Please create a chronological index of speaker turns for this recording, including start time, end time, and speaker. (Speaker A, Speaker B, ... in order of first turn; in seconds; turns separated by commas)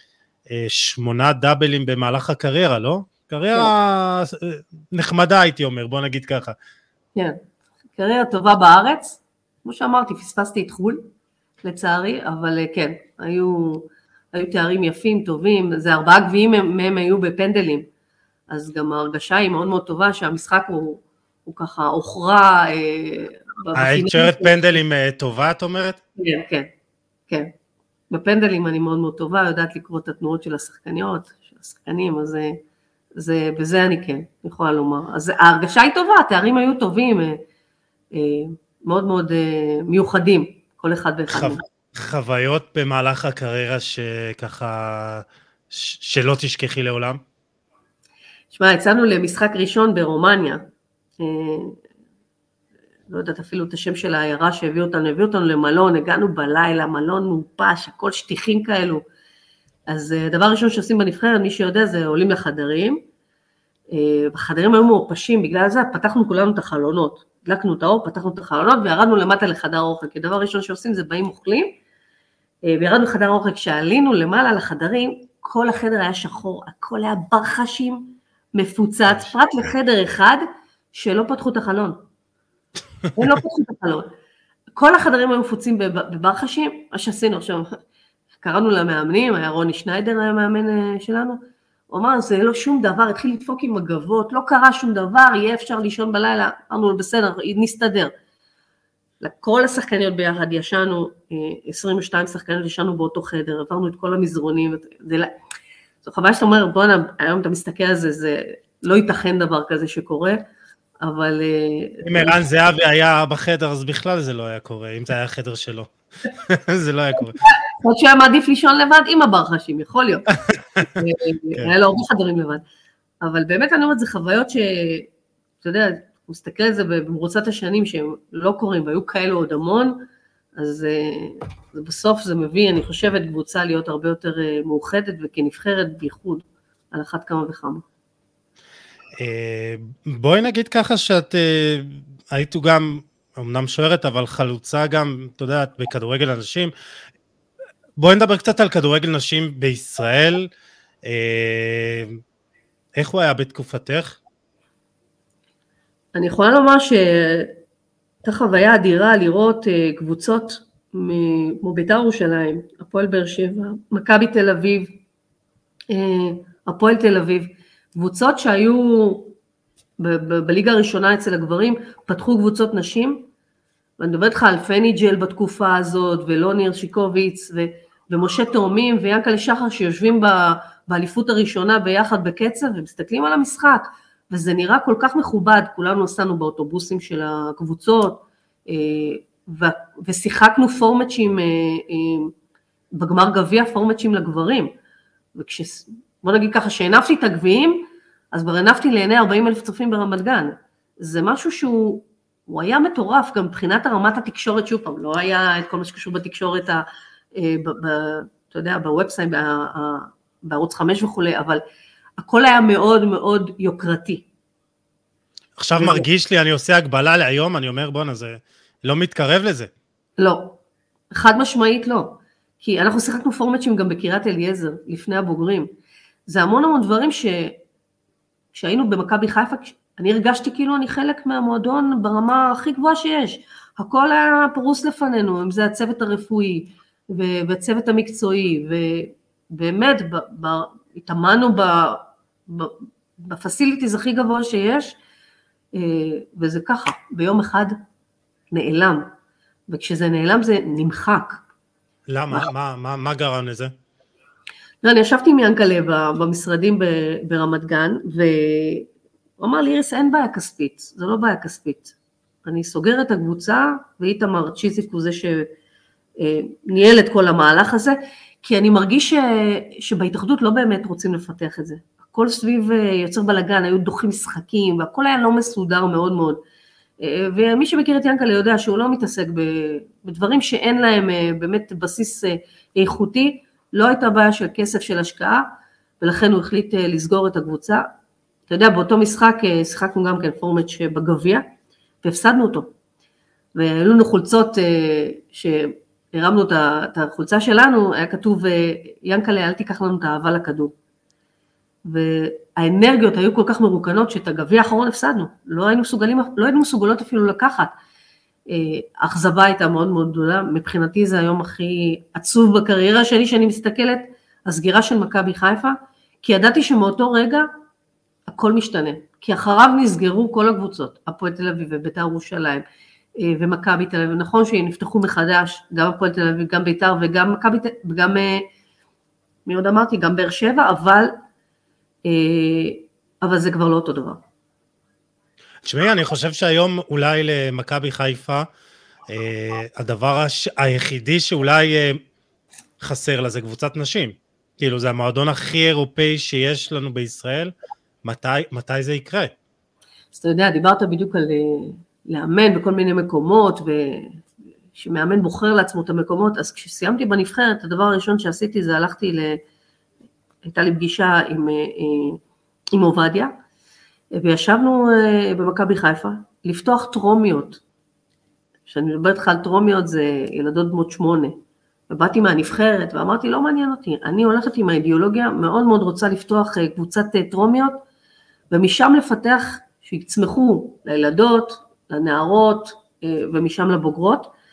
Speaker A: 0.5-6.5, Speaker B: 8.0-11.0, Speaker B: 11.6-17.9, Speaker B: 18.5-24.6, Speaker A: 23.7-26.0, Speaker B: 26.2-26.7, Speaker B: 28.1-32.6, Speaker B: 33.1-37.4, Speaker B: 38.1-41.6, Speaker A: 41.3-47.2, Speaker B: 48.5-50.6, Speaker B: 51.2-51.8, Speaker B: 53.1-59.0, Speaker B: 59.9-63.0, Speaker B: 63.9-71.7, Speaker B: 72.6-82.0, Speaker B: 83.1-84.1, Speaker B: 84.8-87.8, Speaker B: 88.4-98.1, Speaker B: 99.2-105.3, Speaker B: 106.0-110.4, Speaker B: 111.0-112.4, Speaker A: 112.0-117.4, Speaker B: 117.3-122.6, Speaker B: 123.2-125.1, Speaker B: 125.6-130.0, Speaker B: 130.6-137.8, Speaker A: 139.2-146.7, Speaker A: 148.0-150.5, Speaker A: 151.0-152.2, Speaker A: 153.0-154.2, Speaker B: 156.1-157.5, Speaker B: 158.2-164.9, Speaker B: 165.9-169.3, Speaker B: 170.0-173.2, Speaker B: 174.0-192.3, Speaker B: 192.9-194.7, Speaker B: 195.3-206.8, Speaker B: 207.3-211.6, Speaker B: 212.2-214.2, Speaker A: 215.6-219.7, Speaker B: 215.7-216.0, Speaker B: 220.2-220.6, Speaker B: 221.1-225.7, Speaker B: 226.3-227.6, Speaker B: 228.5-244.9, Speaker B: 245.7-247.7, Speaker B: 248.5-249.1, Speaker B: 249.7-251.4, Speaker A: 252.1-253.7, Speaker B: 254.8-258.9, Speaker B: 259.4-265.5, Speaker B: 266.2-276.4, Speaker B: 277.0-285.4, Speaker B: 286.0-287.8, Speaker B: 288.5-291.4, Speaker B: 292.0-292.7, Speaker B: 293.5-300.7, Speaker B: 301.8-307.7, Speaker B: 308.5-317.5, Speaker B: 318.3-322.6, Speaker B: 323.2-328.4, Speaker B: 329.4-331.1, Speaker B: 332.1-334.2, Speaker A: 335.6-338.5, Speaker A: 339.1-342.0, Speaker A: 342.8-349.3, Speaker B: 350.1-359.4, Speaker B: 360.4-362.2, Speaker B: 362.7-363.3, Speaker B: 364.1-367.6, Speaker B: 368.7-371.4, Speaker B: 371.9-377.8, Speaker B: 378.5-384.3